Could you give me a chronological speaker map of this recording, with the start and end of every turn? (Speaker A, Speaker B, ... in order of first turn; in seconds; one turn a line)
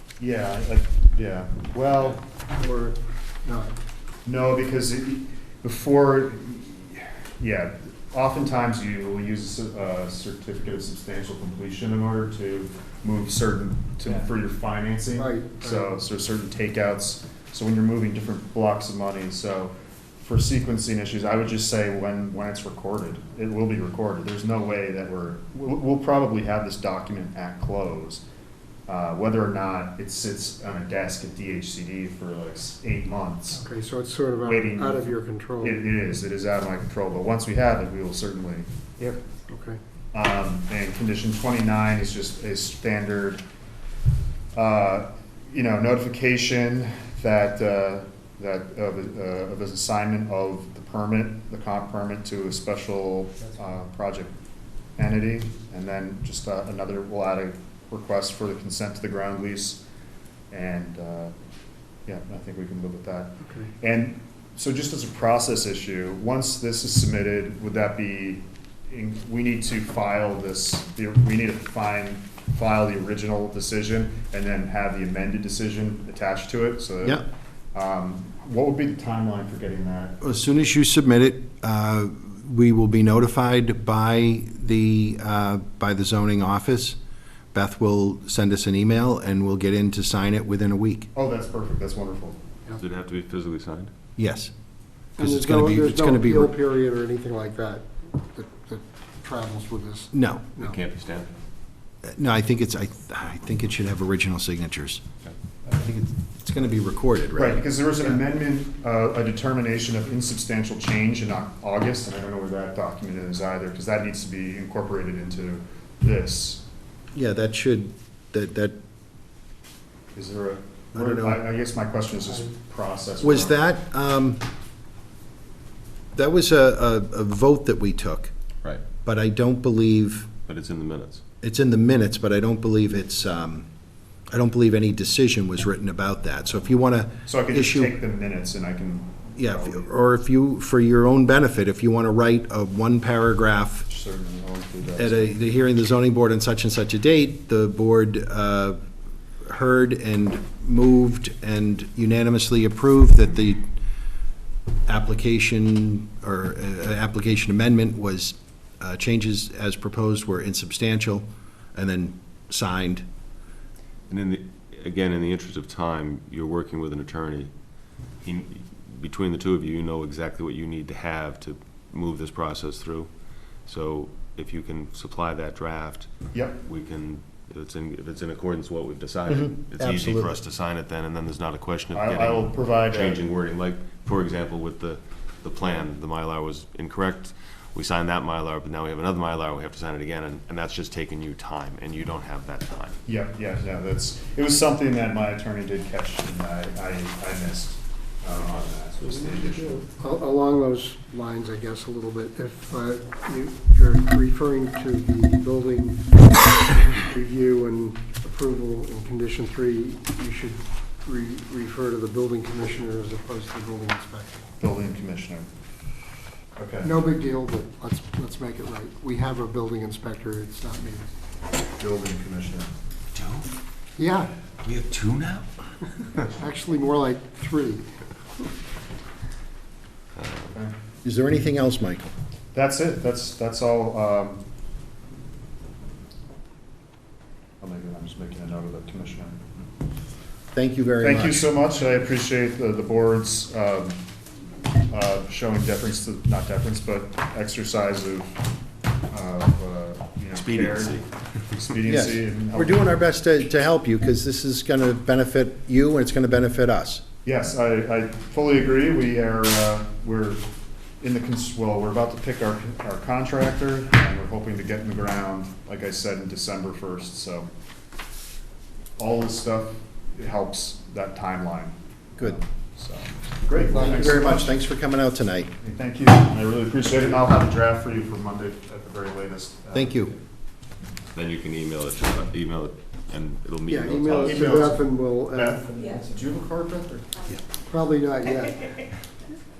Speaker A: 0.2-2.2
Speaker B: 2.6-3.7
Speaker A: 4.2-28.2
Speaker B: 15.1-15.9
Speaker A: 28.9-33.6
Speaker B: 33.5-35.9
Speaker A: 34.4-39.2
Speaker B: 39.5-39.8
Speaker A: 40.1-43.4
Speaker A: 44.5-54.3
Speaker A: 55.0-59.8
Speaker A: 60.5-61.3
Speaker A: 62.0-80.2
Speaker B: 63.4-63.7
Speaker C: 80.2-87.0
Speaker C: 87.5-91.1
Speaker A: 91.1-92.4
Speaker D: 92.7-93.9
Speaker C: 94.2-94.5
Speaker C: 95.2-96.5
Speaker B: 95.2-100.8
Speaker C: 100.1-100.5
Speaker D: 100.6-101.3
Speaker C: 102.0-105.0
Speaker C: 105.7-107.6
Speaker A: 107.3-116.6
Speaker C: 117.1-118.8
Speaker A: 120.1-123.6
Speaker C: 120.9-121.4
Speaker C: 123.2-124.4
Speaker C: 126.1-128.3
Speaker C: 129.0-130.3
Speaker D: 130.4-131.2
Speaker C: 131.4-133.7
Speaker C: 134.3-138.0
Speaker A: 137.2-139.9
Speaker C: 139.4-143.9
Speaker A: 143.9-145.3
Speaker C: 144.9-148.8
Speaker C: 149.4-153.7
Speaker C: 154.9-163.0
Speaker D: 164.1-167.5
Speaker D: 168.2-173.1
Speaker D: 173.6-176.1
Speaker A: 176.3-176.6
Speaker D: 176.6-193.0
Speaker C: 179.3-180.3
Speaker A: 181.9-183.2
Speaker A: 193.1-199.8
Speaker B: 199.8-206.0
Speaker B: 206.6-214.4
Speaker A: 214.6-215.5
Speaker A: 216.6-216.9
Speaker B: 216.8-221.1
Speaker A: 221.8-222.7
Speaker D: 223.1-223.5
Speaker B: 224.0-224.3
Speaker D: 224.6-225.5
Speaker D: 226.0-226.2
Speaker B: 226.2-227.8
Speaker D: 230.2-230.5
Speaker C: 231.0-232.1
Speaker A: 232.5-234.4
Speaker A: 237.6-239.4
Speaker C: 240.5-241.5
Speaker A: 241.0-244.0
Speaker A: 244.9-248.4
Speaker A: 249.1-252.9
Speaker D: 250.3-251.1
Speaker C: 251.8-257.0
Speaker A: 257.2-260.4
Speaker A: 261.0-267.5
Speaker A: 269.0-274.5
Speaker B: 273.6-274.3
Speaker C: 273.6-275.5
Speaker A: 275.6-280.1
Speaker C: 279.7-280.1
Speaker D: 281.1-284.8
Speaker B: 283.7-285.7
Speaker A: 284.1-287.3
Speaker B: 287.6-288.7